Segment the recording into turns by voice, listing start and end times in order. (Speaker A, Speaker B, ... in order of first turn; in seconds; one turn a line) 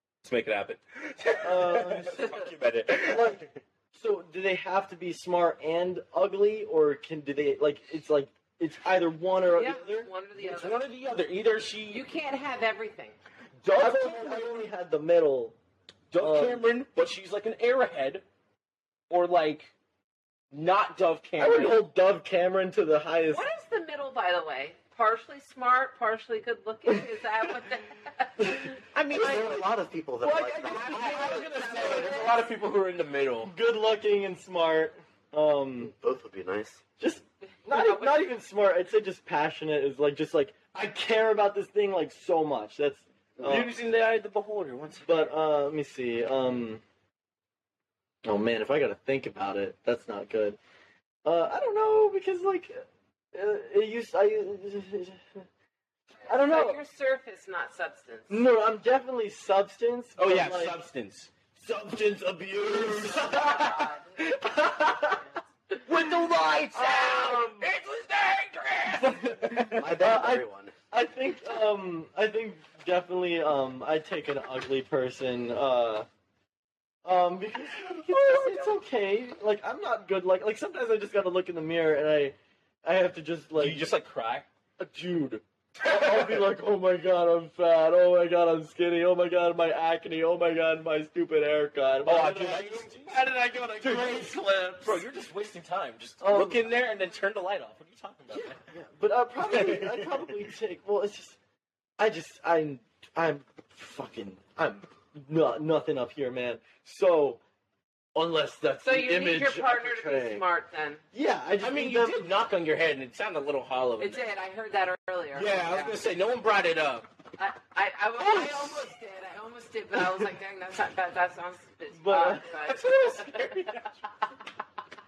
Speaker A: 0.2-3.5
Speaker B: 1.4-2.5
Speaker B: 3.0-10.1
Speaker C: 9.5-10.8
Speaker A: 10.4-12.0
Speaker C: 11.9-13.2
Speaker A: 13.6-14.6
Speaker B: 13.7-15.6
Speaker A: 16.1-18.2
Speaker B: 16.2-16.6
Speaker A: 19.1-19.7
Speaker A: 20.5-21.8
Speaker B: 21.4-23.5
Speaker C: 23.3-28.8
Speaker A: 28.9-29.7
Speaker D: 29.1-31.6
Speaker A: 30.2-33.5
Speaker B: 30.2-32.2
Speaker C: 31.0-32.4
Speaker B: 33.5-35.9
Speaker D: 35.8-36.8
Speaker B: 37.0-43.7
Speaker C: 37.6-38.3
Speaker A: 43.4-45.3
Speaker B: 45.0-46.8
Speaker B: 48.2-50.6
Speaker B: 51.2-55.4
Speaker B: 56.3-56.8
Speaker C: 56.3-58.5
Speaker B: 58.3-60.8
Speaker A: 60.2-61.3
Speaker B: 61.5-63.8
Speaker A: 62.7-63.8
Speaker C: 63.3-64.4
Speaker B: 64.5-65.2
Speaker A: 65.8-70.0
Speaker B: 66.7-67.7
Speaker B: 68.9-76.1
Speaker D: 69.6-70.7
Speaker B: 77.0-83.8
Speaker A: 78.2-78.6
Speaker A: 83.6-84.5
Speaker B: 84.8-95.0
Speaker A: 85.8-86.4
Speaker A: 92.0-98.6
Speaker B: 96.2-96.8
Speaker B: 98.3-101.4
Speaker A: 99.5-100.2
Speaker B: 102.0-107.4
Speaker B: 108.1-110.4
Speaker C: 108.8-111.0
Speaker B: 111.1-112.2
Speaker A: 111.6-114.2
Speaker C: 114.0-116.0
Speaker A: 115.3-117.0
Speaker C: 117.4-123.8
Speaker A: 118.2-118.9
Speaker B: 122.0-122.5
Speaker A: 122.6-123.9